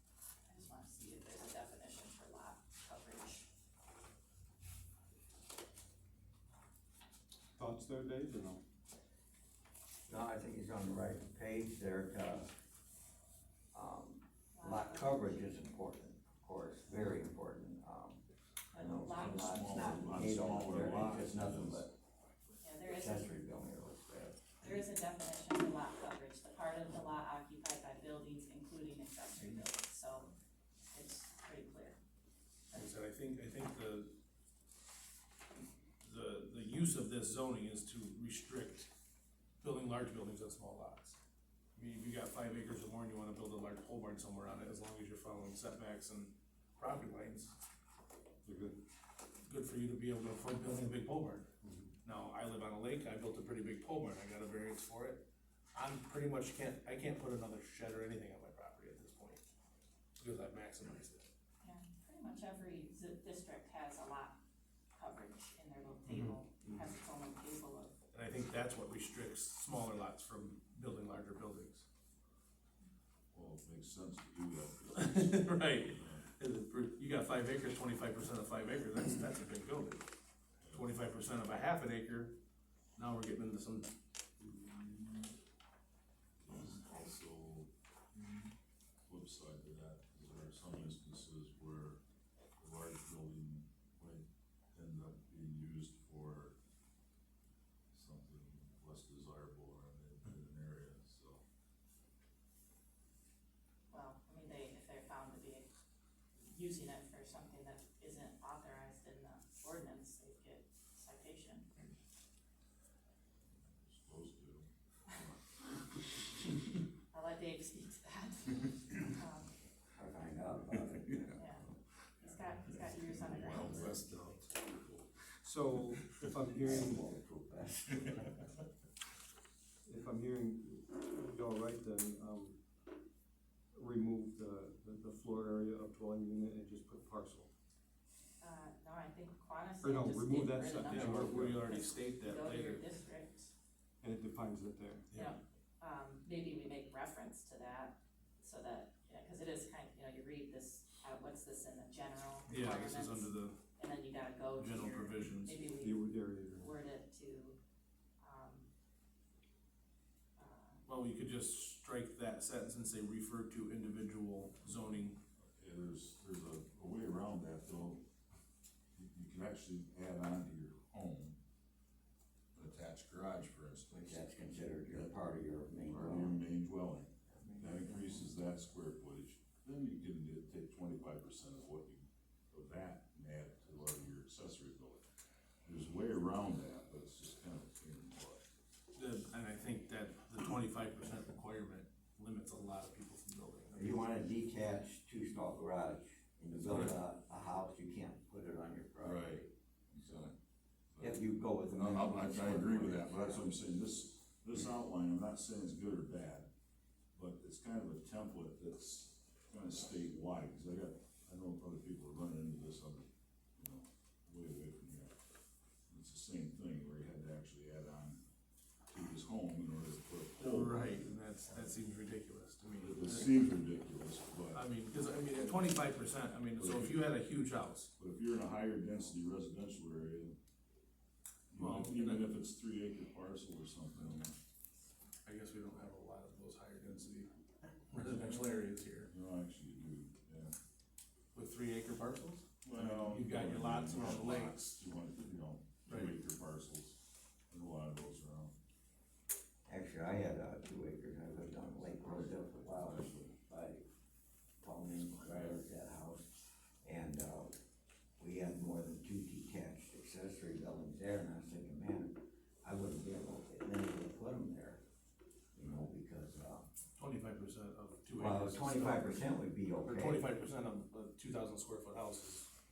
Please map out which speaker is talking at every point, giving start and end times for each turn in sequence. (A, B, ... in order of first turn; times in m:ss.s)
0:00.4-0:03.5 A
0:07.6-0:08.6 B
0:10.1-0:12.5 C
0:13.7-0:21.9 C
0:14.5-0:15.4 A
0:18.7-0:20.0 A
0:19.1-0:21.9 D
0:22.6-0:23.4 A
0:22.8-0:24.4 C
0:24.6-0:30.3 A
0:30.9-0:32.0 A
0:32.7-0:34.1 E
0:36.0-0:38.9 E
0:39.6-0:41.2 E
0:41.8-0:47.6 E
0:48.4-0:48.8 B
0:49.5-0:51.5 E
0:51.6-0:51.9 B
0:52.0-0:59.4 E
1:00.2-1:01.3 E
1:01.6-1:04.4 A
1:04.9-1:07.9 A
1:06.1-1:06.4 E
1:08.1-1:11.8 E
1:13.3-1:16.3 D
1:14.9-1:20.0 E
1:20.6-1:20.9 D
1:20.7-1:22.4 E
1:23.0-1:23.9 E
1:24.5-1:25.2 D
1:26.4-1:27.7 D
1:29.1-1:32.0 D
1:32.6-1:36.6 D
1:37.9-1:41.4 D
1:43.9-1:45.7 A
1:46.4-1:51.7 A
1:53.4-1:54.7 D
1:57.1-1:59.5 A
2:00.0-2:01.4 C
2:01.4-2:01.7 A
2:02.2-2:04.3 A
2:02.7-2:05.3 D
2:03.7-2:04.4 E
2:05.4-2:07.0 B
2:06.0-2:06.3 D
2:06.4-2:08.4 C
2:09.8-2:12.6 B
2:13.7-2:17.5 B
2:18.4-2:23.5 A
2:19.8-2:21.6 B
2:20.9-2:22.8 E
2:24.0-2:25.0 B
2:25.1-2:37.6 A
2:32.5-2:33.6 E
2:34.6-2:35.6 E
2:35.8-2:36.7 B
2:38.2-2:38.7 A
2:40.4-2:40.8 A
2:40.9-2:45.2 E
2:45.6-2:48.0 D
2:49.0-2:51.4 D
2:52.6-2:54.3 D
2:53.9-2:56.4 C
2:54.9-2:55.2 D
2:55.8-3:05.0 D
2:57.4-2:58.2 C
3:05.6-3:08.4 D
3:09.0-3:14.1 E
3:13.7-3:20.3 C
3:16.6-3:17.0 D
3:19.0-3:19.5 D
3:20.0-3:20.3 D
3:20.9-3:26.5 D
3:21.0-3:23.5 C
3:27.1-3:35.1 D
3:35.9-3:38.2 D
3:38.9-3:41.0 D
3:40.4-3:43.4 E
3:42.8-3:44.7 D
3:44.5-3:47.9 E
3:45.4-3:45.9 D
3:46.5-3:47.2 D
3:48.0-3:50.4 D
3:51.5-3:54.4 D
3:51.6-3:52.3 E
3:55.2-3:57.3 E
3:57.9-3:59.1 E
3:59.1-4:00.5 D
4:01.3-4:04.8 E
4:02.6-4:08.5 D
4:05.9-4:06.2 E
4:09.7-4:13.8 C
4:11.5-4:13.3 D
4:14.6-4:17.6 C
4:15.2-4:15.6 D
4:18.2-4:24.8 C
4:25.5-4:26.7 C
4:27.0-4:29.3 E
4:28.2-4:30.2 C
4:29.8-4:32.5 E